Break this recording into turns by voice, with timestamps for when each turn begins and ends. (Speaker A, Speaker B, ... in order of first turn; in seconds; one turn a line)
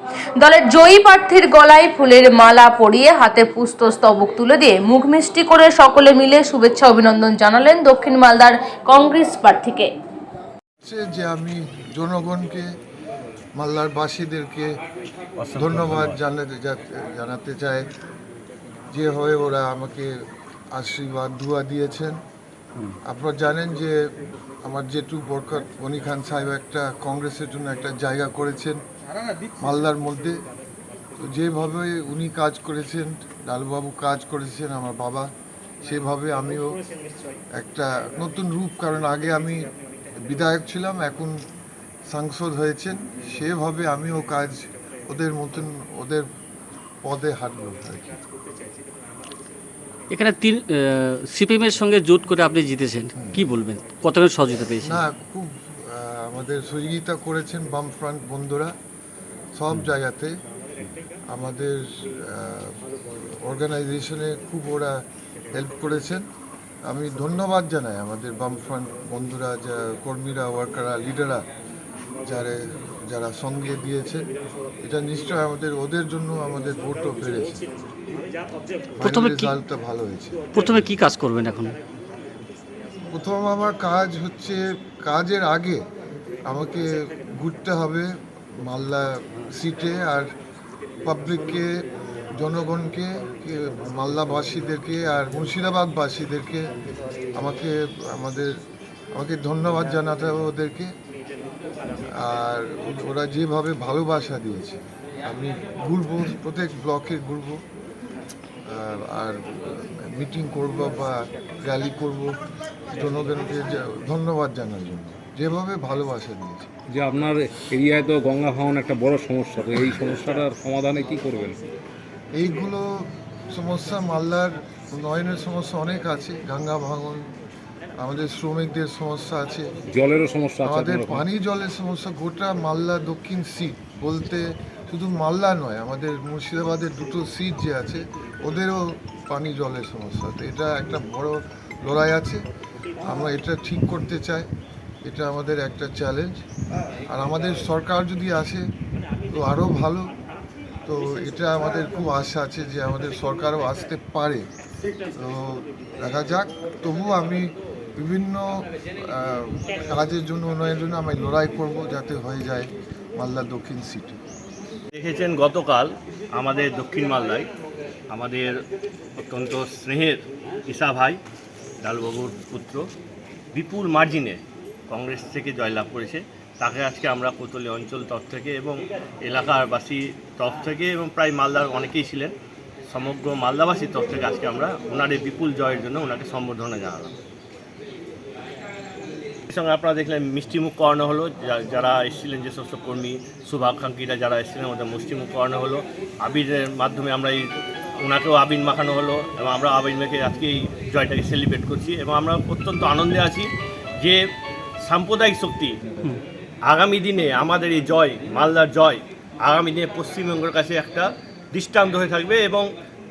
Speaker A: 0.4-9.9
Speaker B: 10.8-12.7
Speaker B: 13.6-14.7
Speaker C: 15.4-16.2
Speaker B: 15.6-17.9
Speaker B: 18.9-20.1
Speaker B: 20.7-22.2
Speaker B: 23.0-24.0
Speaker B: 24.6-28.8
Speaker B: 29.6-30.4
Speaker B: 31.2-35.3
Speaker B: 35.8-36.8
Speaker B: 37.5-39.7
Speaker B: 40.2-41.4
Speaker B: 42.1-46.3
Speaker B: 47.0-48.2
Speaker D: 50.1-55.0
Speaker B: 53.1-53.5
Speaker B: 54.8-58.7
Speaker B: 59.5-60.3
Speaker B: 61.3-62.8
Speaker B: 63.4-65.0
Speaker B: 65.5-66.2
Speaker B: 66.9-71.4
Speaker B: 72.2-74.2
Speaker B: 74.8-77.6
Speaker B: 79.0-80.4
Speaker D: 80.5-81.7
Speaker B: 83.1-85.8
Speaker B: 86.5-88.1
Speaker B: 88.7-90.3
Speaker B: 91.0-91.7
Speaker B: 92.3-96.7
Speaker B: 97.3-98.5
Speaker B: 99.1-100.9
Speaker B: 102.1-107.6
Speaker B: 108.7-112.4
Speaker B: 112.9-116.7
Speaker E: 116.9-121.6
Speaker B: 122.3-127.3
Speaker B: 128.0-129.7
Speaker E: 129.9-131.2
Speaker B: 130.6-142.4
Speaker B: 143.0-144.5
Speaker B: 145.0-146.4
Speaker B: 147.1-148.6
Speaker B: 149.3-150.1
Speaker B: 150.8-154.5
Speaker B: 155.2-164.2
Speaker C: 164.9-167.5
Speaker C: 168.1-168.6
Speaker C: 169.2-171.2
Speaker C: 171.8-172.8
Speaker C: 173.5-182.3
Speaker C: 182.9-187.1
Speaker C: 189.5-197.4
Speaker C: 198.0-203.5
Speaker C: 204.8-205.8
Speaker C: 206.7-212.7